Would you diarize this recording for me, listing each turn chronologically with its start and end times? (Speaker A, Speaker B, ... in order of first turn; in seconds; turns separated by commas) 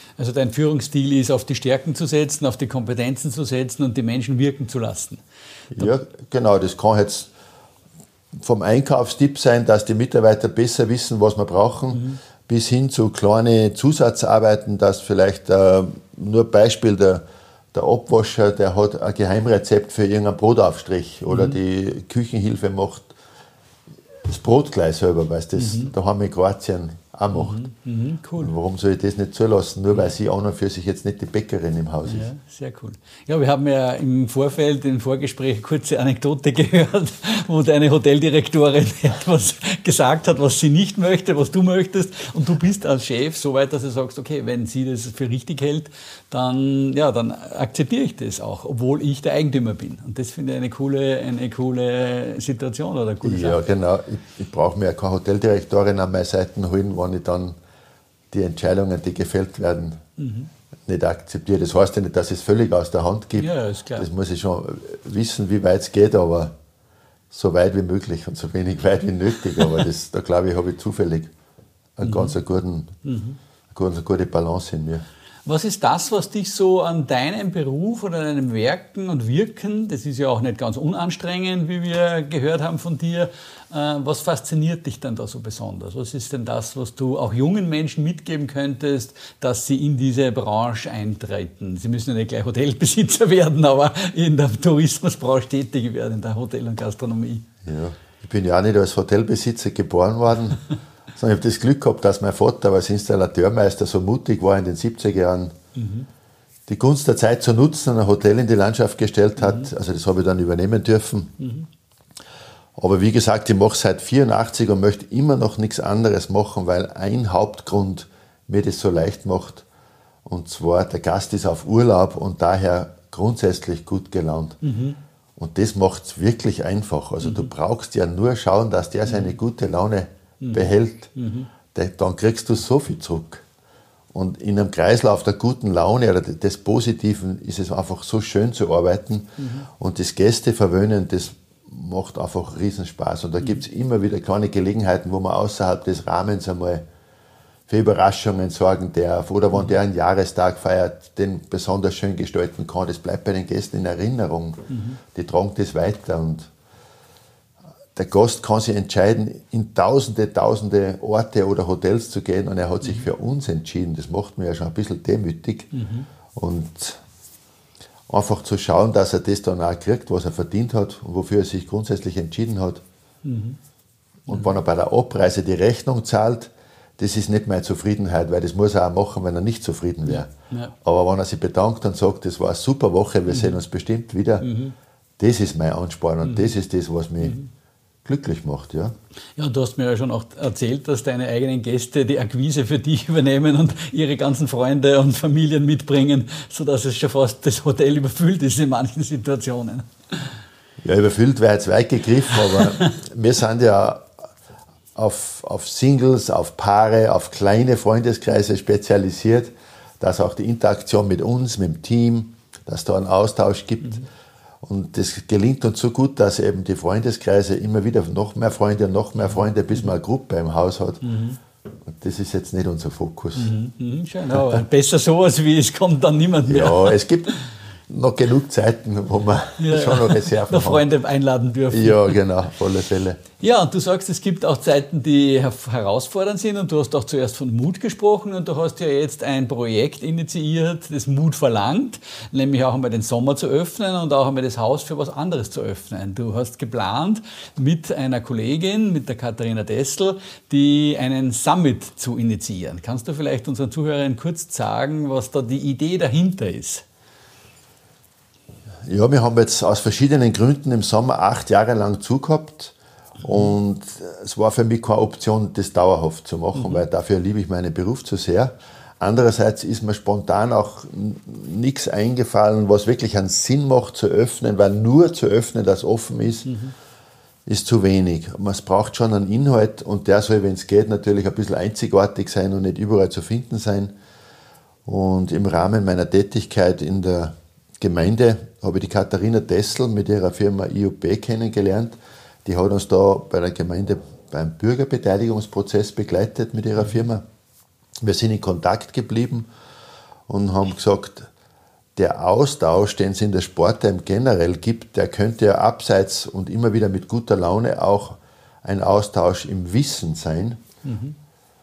Speaker A: 0.2-5.2, Speaker B: 5.7-7.3, Speaker B: 8.3-23.1, Speaker A: 11.9-12.2, Speaker A: 21.3-21.6, Speaker B: 24.2-27.6, Speaker A: 25.6-25.9, Speaker A: 27.3-28.5, Speaker B: 28.4-32.3, Speaker A: 32.0-53.6, Speaker B: 53.2-57.6, Speaker B: 58.3-60.0, Speaker A: 60.2-60.5, Speaker B: 60.9-66.5, Speaker A: 63.4-64.1, Speaker B: 67.3-71.3, Speaker B: 72.0-72.9, Speaker A: 72.0-72.3, Speaker A: 73.0-73.4, Speaker B: 73.7-75.0, Speaker A: 75.5-97.4, Speaker B: 97.6-105.5, Speaker A: 105.8-106.1, Speaker B: 106.7-111.3, Speaker A: 109.4-109.7, Speaker A: 111.4-111.7, Speaker B: 112.8-119.7, Speaker B: 120.2-124.6, Speaker A: 124.6-125.0, Speaker B: 125.3-131.1, Speaker A: 127.2-127.5, Speaker A: 129.1-129.3, Speaker A: 130.4-131.5, Speaker B: 131.7-133.4, Speaker B: 134.1-146.8, Speaker A: 139.4-139.7, Speaker B: 147.7-156.5, Speaker A: 154.7-155.0, Speaker B: 157.9-165.7, Speaker A: 165.7-166.1, Speaker B: 166.3-167.0, Speaker B: 168.1-172.8, Speaker A: 173.2-173.6, Speaker A: 174.3-174.5, Speaker B: 174.3-184.5, Speaker A: 180.1-180.7, Speaker A: 183.3-183.6, Speaker A: 184.4-184.7, Speaker B: 185.2-187.4, Speaker A: 186.2-186.5, Speaker A: 187.2-187.5, Speaker B: 188.0-188.9, Speaker A: 189.4-200.3, Speaker B: 200.8-204.1, Speaker B: 204.9-214.0, Speaker B: 214.6-221.0, Speaker A: 221.0-221.4, Speaker B: 221.8-223.5, Speaker A: 223.3-227.3, Speaker B: 226.5-227.3, Speaker B: 227.9-230.8, Speaker A: 229.6-232.2, Speaker B: 231.7-233.2, Speaker A: 233.4-256.8, Speaker B: 258.9-276.6, Speaker A: 266.5-266.8, Speaker A: 276.4-276.7, Speaker B: 277.4-283.9, Speaker B: 284.8-297.2, Speaker B: 298.0-299.5, Speaker B: 300.3-301.3, Speaker B: 301.9-310.6, Speaker A: 310.8-311.1